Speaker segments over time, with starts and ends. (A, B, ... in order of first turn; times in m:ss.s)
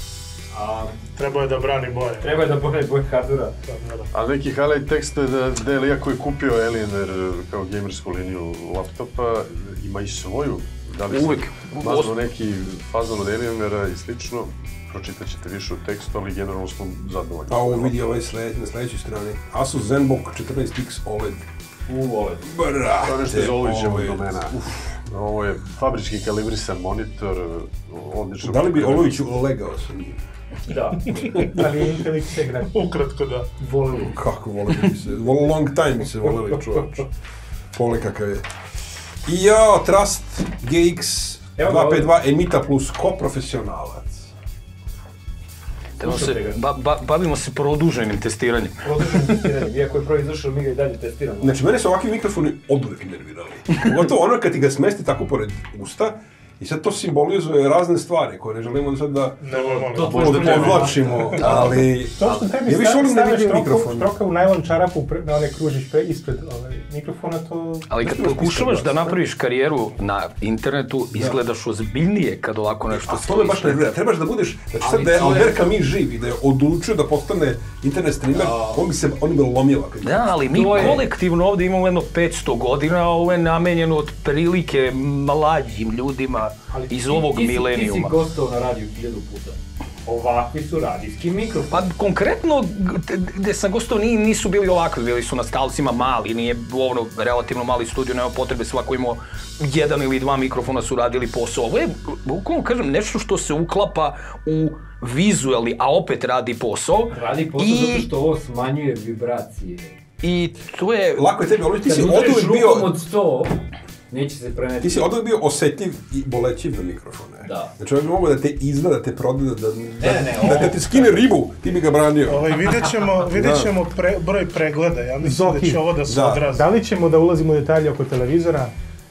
0:00.5-0:01.1 A
0:01.2-0:02.4 B
0:02.2-0:03.6 A
0:03.7-0:04.1 B
0:04.1-0:17.9 C
0:11.1-0:12.1 D
0:17.5-0:21.4 E
0:21.9-0:22.5 A
0:22.5-0:25.0 E
0:23.0-0:29.2 C
0:28.4-0:30.2 E
0:30.7-0:31.4 A
0:31.2-0:31.5 B
0:31.2-0:31.7 E
0:31.4-0:32.8 F
0:32.7-0:33.5 B
0:33.6-0:34.2 A
0:34.0-0:37.0 E
0:37.7-0:38.4 E
0:39.2-0:44.3 E
0:41.6-0:42.1 A
0:46.0-0:48.9 D
0:46.0-0:46.6 A
0:48.8-0:51.6 A
0:51.4-0:59.4 E
0:59.4-1:00.9 B
0:59.5-1:01.7 A
1:00.0-1:04.1 E
1:00.1-1:01.1 C
1:01.4-1:01.8 D
1:01.6-1:07.9 F
1:07.9-1:13.8 D
1:08.0-1:09.2 E
1:12.9-1:21.0 E
1:14.8-1:15.7 A
1:18.4-1:18.9 A
1:20.0-1:28.2 D
1:20.5-1:21.0 A
1:26.7-1:31.9 A
1:31.7-1:48.1 D
1:47.1-1:50.0 A
1:50.2-1:51.4 D
1:51.2-1:52.9 E
1:51.8-1:55.1 A
1:54.8-2:02.5 E
1:57.4-1:57.7 A
2:00.0-2:01.2 A
2:02.3-2:06.7 B
2:03.3-2:03.7 E
2:05.2-2:08.7 F
2:06.1-2:06.5 E